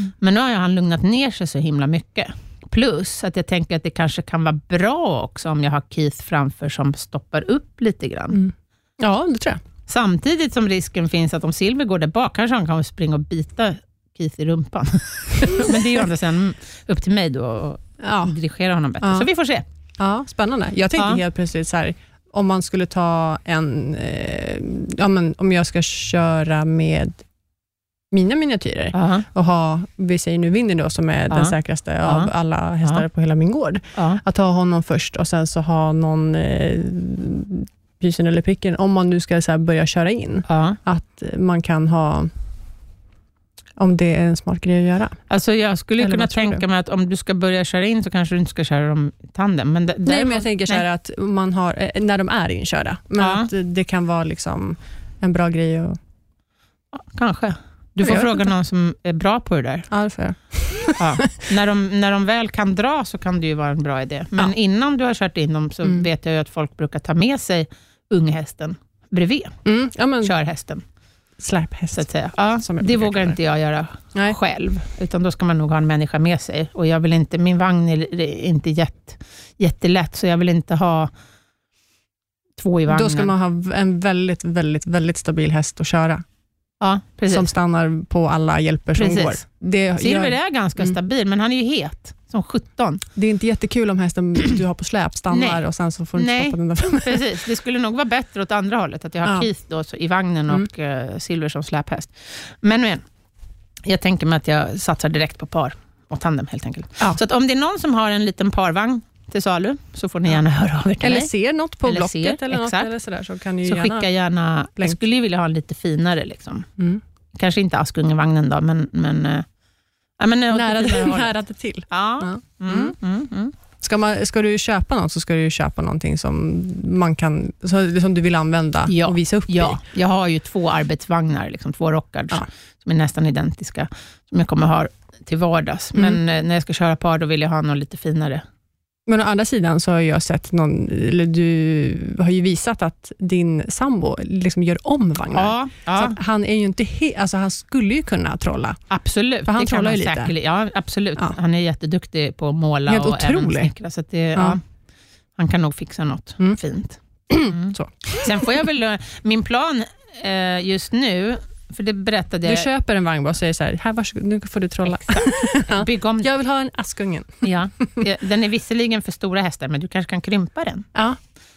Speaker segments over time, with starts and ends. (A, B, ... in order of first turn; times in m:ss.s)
0:00.2-0:08.4 A
0:08.3-0:09.6 B
0:09.9-0:19.7 A
0:15.5-0:16.0 B
0:18.0-0:18.3 B
0:19.0-0:19.3 B
0:20.0-0:27.2 B
0:28.1-0:42.3 B
0:28.9-0:29.3 A
0:31.3-0:32.3 A
0:40.5-0:40.8 A
0:43.8-0:45.2 B
0:45.3-0:50.8 A
0:46.0-0:46.6 B
0:50.0-0:56.0 B
0:53.2-0:53.5 A
0:56.9-0:59.9 A
0:58.0-0:58.4 B
0:59.9-1:01.3 B
1:01.0-1:09.6 A
1:09.6-1:10.3 B
1:10.2-1:10.8 A
1:11.4-1:12.1 B
1:11.9-1:21.1 A
1:12.6-1:13.4 B
1:22.6-1:23.3 A
1:22.9-1:26.2 B
1:26.8-1:27.5 A
1:27.3-1:30.9 B
1:29.0-1:29.4 A
1:30.0-1:33.0 A
1:33.2-1:37.3 B
1:35.3-1:35.6 A
1:36.2-1:43.0 A
1:43.8-1:51.3 A
1:51.0-1:54.1 B
1:51.8-1:52.9 A
1:53.6-1:56.7 A
1:57.4-1:59.4 A
2:00.2-2:01.3 A
2:00.5-2:03.0 B
2:01.9-2:03.5 A
2:03.8-2:09.8 B
2:08.9-2:18.4 A
2:19.1-2:28.8 B
2:25.3-2:26.2 A
2:28.9-2:34.6 A
2:29.5-2:30.3 B
2:32.9-2:33.7 B
2:35.4-2:42.7 A
2:37.3-2:38.5 B
2:42.4-2:47.8 B
2:44.9-2:46.3 A
2:47.4-2:50.9 A